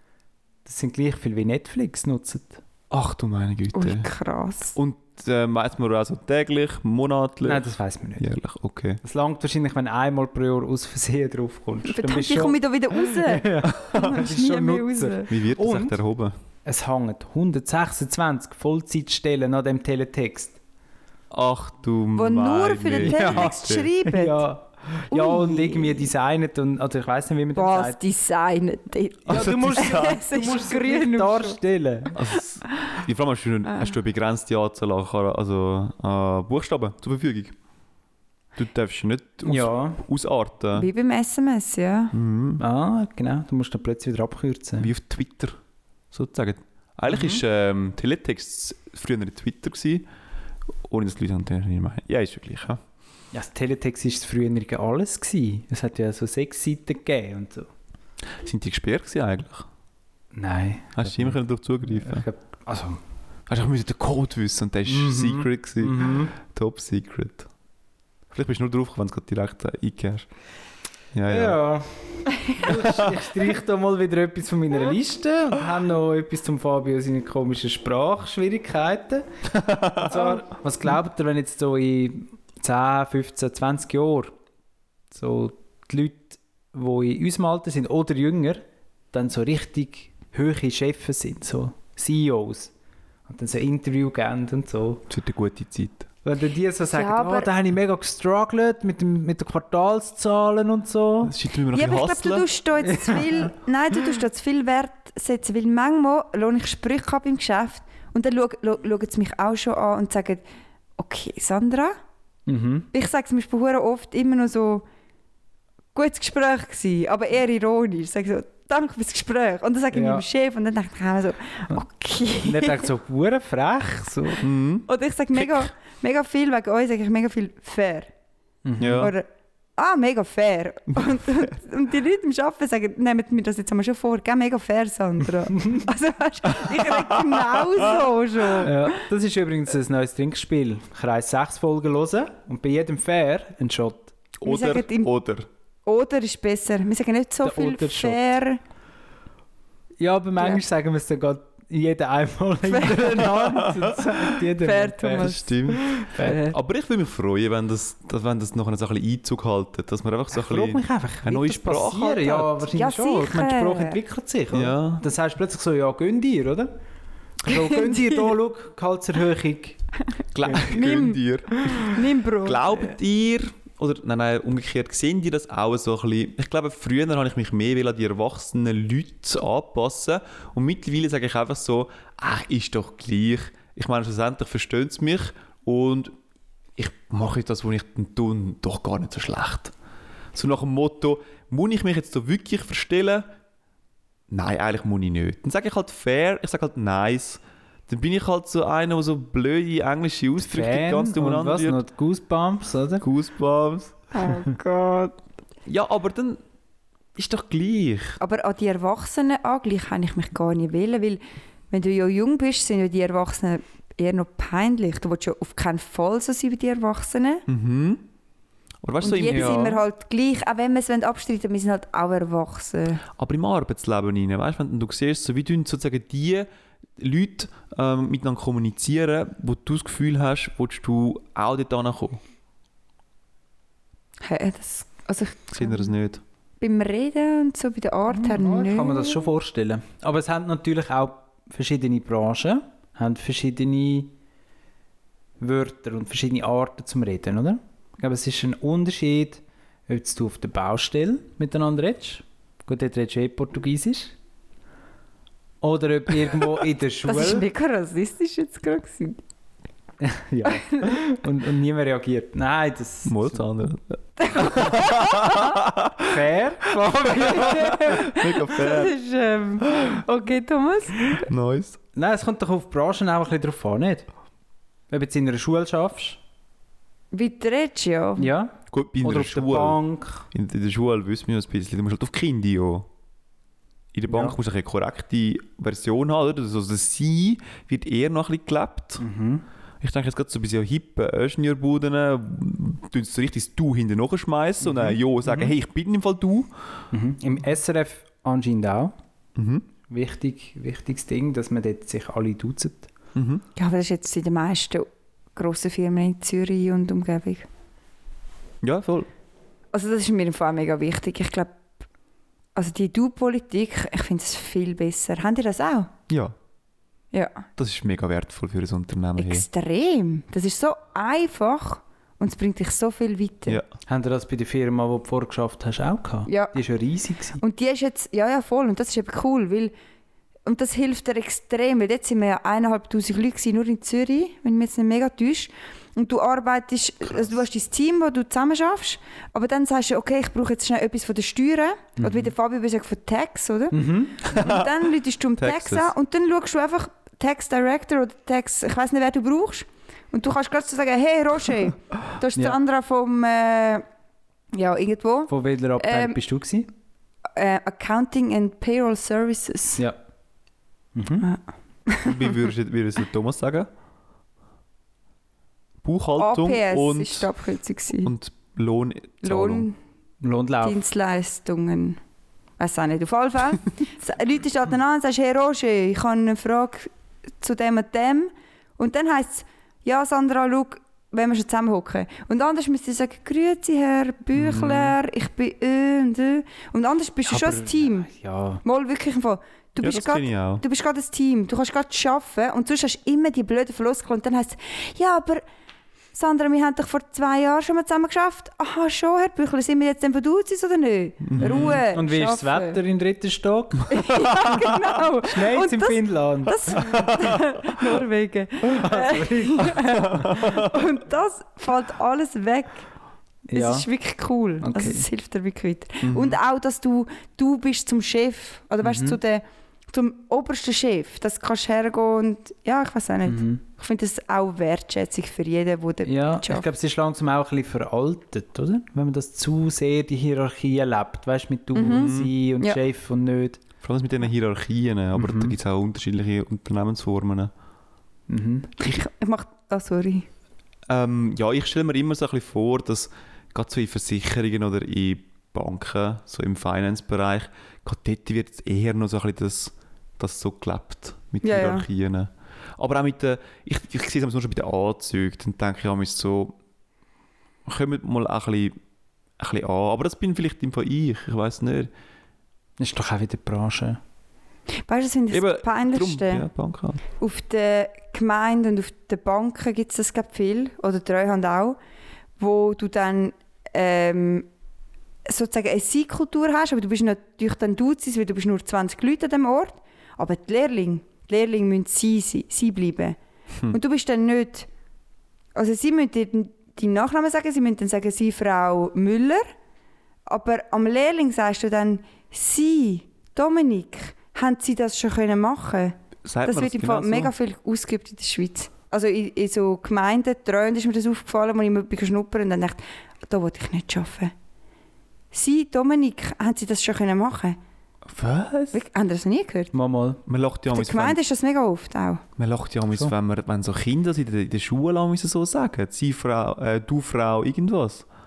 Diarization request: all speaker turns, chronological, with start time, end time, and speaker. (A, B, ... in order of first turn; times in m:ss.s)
0:00.6-0:02.6 A
0:02.9-0:04.1 B
0:03.7-0:04.8 C
0:04.8-0:07.7 B
0:07.4-0:08.3 A
0:08.2-0:09.0 B
0:09.0-0:16.0 A
0:11.8-0:15.3 C
0:15.3-0:16.3 B
0:16.6-0:20.6 A
0:21.3-0:23.9 B
0:22.1-0:24.4 C
0:22.9-0:28.0 A
0:25.1-0:26.1 C
0:27.5-0:31.6 C
0:29.3-0:30.2 B
0:29.3-0:32.2 A
0:32.1-0:37.5 B
0:38.6-0:40.9 B
0:39.4-0:40.0 A
0:40.7-0:42.1 C
0:42.1-0:42.6 B
0:42.6-0:44.9 A
0:44.8-0:45.6 B
0:46.1-0:50.0 B
0:47.1-0:47.4 A
0:50.8-0:52.8 B
0:53.3-0:57.7 A
0:58.4-0:59.7 B
1:00.3-1:01.4 A
1:01.0-1:02.2 B
1:01.9-1:03.0 A
1:03.5-1:07.5 B
1:04.8-1:06.3 A
1:08.3-1:10.3 B
1:11.1-1:11.6 B
1:11.3-1:19.3 A
1:12.8-1:13.1 B
1:19.5-1:20.1 B
1:19.8-1:24.3 A
1:25.1-1:32.7 A
1:33.3-1:35.0 A
1:35.1-1:36.1 B
1:36.2-1:41.3 A
1:36.9-1:37.5 C
1:41.2-1:42.5 B
1:41.7-1:50.4 C
1:42.8-1:43.4 A
1:51.0-1:52.0 C
1:52.5-1:52.9 A
1:52.9-1:54.8 C
1:55.9-2:02.9 C
1:59.9-2:00.2 A
2:02.4-2:04.4 A
2:04.4-2:05.6 B
2:04.9-2:08.1 C
2:08.6-2:09.1 A
2:08.8-2:09.1 B
2:09.0-2:19.0 C
2:18.6-2:24.1 A
2:24.4-2:25.5 B
2:24.4-2:25.1 C
2:25.8-2:28.6 C
2:27.4-2:28.2 A
2:30.0-2:36.4 A
2:32.7-2:33.3 C
2:33.2-2:34.3 B
2:34.6-2:36.5 C
2:35.2-2:42.6 B
2:40.3-2:46.7 A
2:42.7-2:44.0 C
2:44.5-2:45.0 B
2:47.4-2:49.8 A
2:47.5-2:48.2 C
2:50.3-3:06.1 B
2:50.5-2:52.9 C
3:06.8-3:09.7 B
3:10.3-3:13.3 B
3:14.3-3:21.8 B
3:20.4-3:23.0 A
3:23.0-3:23.9 B
3:24.1-3:25.2 C
3:25.6-3:26.4 B
3:27.2-3:28.2 B
3:28.2-3:37.4 C
3:37.5-3:38.0 B
3:38.8-3:39.8 B
3:39.0-3:43.0 C
3:39.3-3:39.8 A
3:43.2-3:52.2 B
3:54.2-3:55.9 C
3:55.5-3:56.2 B
3:56.6-3:59.3 C
3:58.1-4:04.1 A
4:05.4-4:14.1 A
4:15.6-4:17.4 A
4:17.0-4:19.2 C
4:20.0-4:23.4 A
4:20.5-4:21.0 C
4:23.0-4:26.2 B
4:24.2-4:25.5 C
4:26.0-4:27.9 A
4:26.9-4:28.9 B
4:27.2-4:31.1 C
4:31.2-4:31.8 B
4:32.0-4:34.0 A
4:34.9-4:36.2 A
4:37.1-4:38.3 C
4:38.2-4:40.2 A
4:38.7-4:39.8 B
4:40.3-4:42.9 B
4:43.9-4:49.0 B
4:44.1-4:44.4 A
4:49.0-4:49.4 A
4:49.8-4:56.5 B
4:54.6-4:55.5 A
4:56.9-4:58.9 A
4:59.4-4:59.6 B
4:59.9-5:02.9 A
5:03.1-5:03.4 B
5:03.6-5:07.5 C
5:08.6-5:09.1 B
5:09.7-5:11.5 C
5:12.5-5:15.9 C
5:16.1-5:16.3 B
5:17.1-5:17.4 C
5:17.6-5:19.4 B
5:19.2-5:23.6 C
5:23.9-5:27.4 A
5:26.3-5:26.6 C
5:27.4-5:29.7 C
5:30.4-5:53.8 C
5:42.0-5:42.3 A
5:43.7-5:44.2 A
5:44.3-5:44.8 B
5:45.4-5:45.9 B
5:54.5-5:56.2 C
5:55.3-5:56.7 A
5:57.3-5:59.8 C
6:00.9-6:01.3 A
6:01.2-6:02.2 C
6:02.0-6:03.7 B
6:05.8-6:07.3 B
6:06.2-6:08.1 C
6:08.0-6:09.7 B
6:09.2-6:09.8 C
6:10.2-6:10.8 A
6:10.6-6:12.0 C
6:12.6-6:28.1 C
6:24.4-6:24.9 B
6:27.3-6:28.6 A
6:28.6-6:35.4 C
6:29.8-6:30.6 B
6:36.1-6:42.8 C
6:41.2-6:41.8 B
6:41.4-6:43.9 A
6:43.9-6:52.8 C
6:45.2-6:47.1 A
6:46.9-6:47.3 B
6:48.8-6:50.2 A
6:49.8-6:50.7 B
6:53.5-6:53.9 A
6:53.5-7:06.7 C
6:54.6-6:55.0 A
6:56.0-6:56.4 B
6:58.8-6:59.2 A
7:03.2-7:03.6 A
7:06.0-7:13.6 A
7:11.7-7:12.8 C
7:11.9-7:12.3 B
7:13.8-7:17.5 B
7:15.1-7:15.6 A
7:18.3-7:18.7 A
7:18.8-7:20.3 C
7:20.9-7:36.6 B
7:31.4-7:31.9 C
7:37.6-7:38.8 B
7:39.4-7:41.9 B
7:42.8-7:44.0 A
7:44.8-7:46.5 C
7:45.3-7:47.0 B
7:47.2-7:51.8 C
7:52.4-7:54.5 C
7:55.2-8:03.2 C
8:03.7-8:04.7 C
8:05.5-8:09.5 C
8:10.3-8:24.3 C
8:16.2-8:17.3 B
8:25.3-8:27.6 C
8:28.1-8:28.8 B
8:28.7-8:29.7 C
8:29.7-8:30.2 A
8:30.2-8:31.2 B
8:30.7-8:32.2 C
8:32.4-8:38.0 B